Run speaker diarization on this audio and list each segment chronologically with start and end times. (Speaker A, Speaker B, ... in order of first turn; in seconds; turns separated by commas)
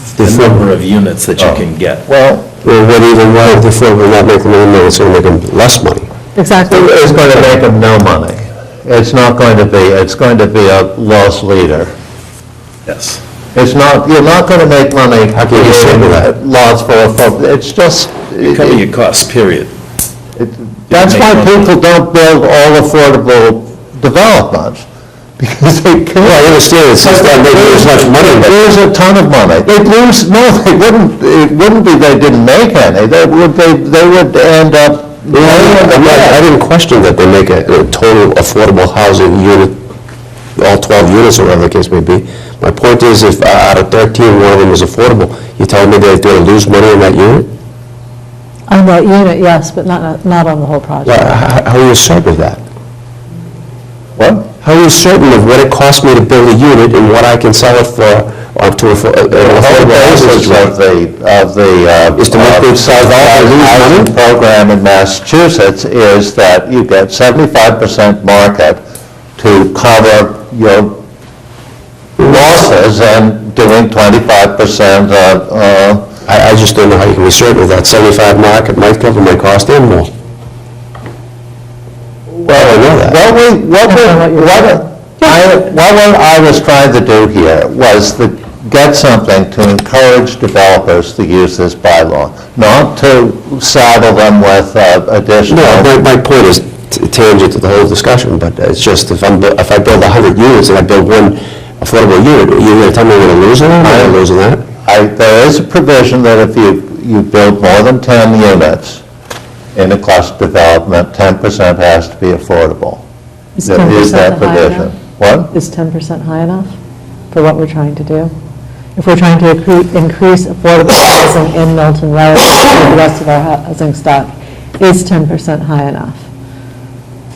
Speaker A: 0.1-2.0, Speaker B: 0.2-0.6, Speaker C: 1.4-2.5, Speaker B: 2.6-6.1, Speaker D: 6.3-6.9, Speaker C: 6.7-11.9, Speaker A: 12.9-13.2, Speaker C: 13.5-18.8, Speaker B: 15.3-16.3, Speaker A: 18.4-19.7, Speaker C: 20.4-24.8, Speaker A: 20.9-21.7, Speaker C: 25.4-36.4, Speaker B: 26.2-28.7, Speaker B: 35.3-39.8, Speaker B: 40.5-47.5, Speaker D: 48.7-51.4, Speaker B: 51.0-52.6, Speaker C: 54.2-54.5, Speaker B: 54.6-60.7, Speaker C: 59.3-68.8, Speaker B: 62.2-64.1, Speaker C: 69.4-71.0, Speaker C: 72.2-76.1, Speaker B: 76.2-80.1, Speaker C: 82.4-95.9, Speaker B: 82.5-83.2, Speaker D: 83.9-85.3, Speaker B: 95.5-104.6, Speaker C: 103.8-104.2, Speaker C: 104.8-109.0, Speaker C: 109.7-113.0, Speaker D: 113.6-114.9, Speaker C: 113.6-115.5, Speaker D: 115.5-116.7, Speaker D: 117.3-118.3, Speaker D: 119.0-126.2